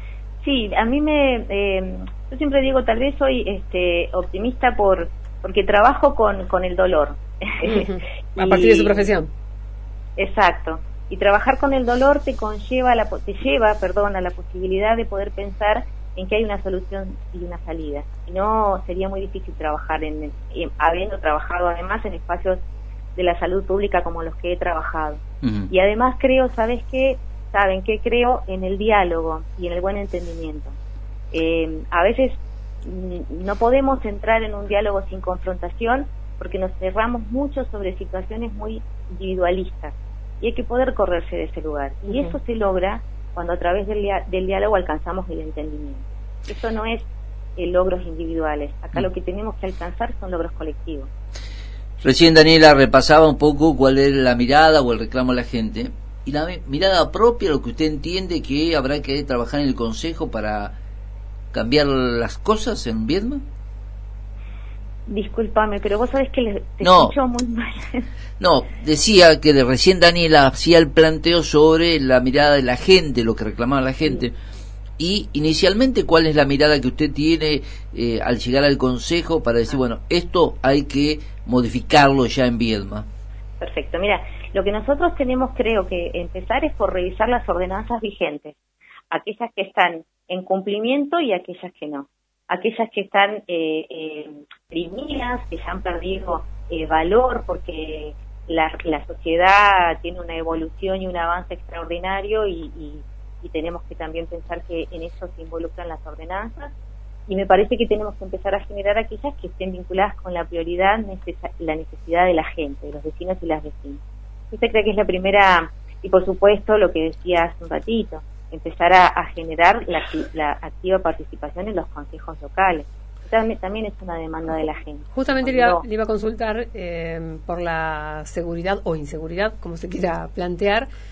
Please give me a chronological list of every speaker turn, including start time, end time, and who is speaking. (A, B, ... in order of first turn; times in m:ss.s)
0:00.4-0:09.1 A
0:07.6-0:09.3 B
0:10.2-0:22.6 A
0:23.2-0:30.7 A
0:25.4-0:25.7 C
0:31.3-0:51.1 A
0:42.1-0:42.3 B
0:52.0-1:00.8 C
1:01.5-1:03.4 C
1:05.1-1:08.1 A
1:06.8-1:07.1 C
1:08.4-1:14.3 C
1:15.0-1:23.1 C
1:23.6-1:28.5 A
1:29.1-1:46.7 A
1:47.3-1:54.0 A
1:54.5-2:05.8 A
2:05.1-2:10.9 B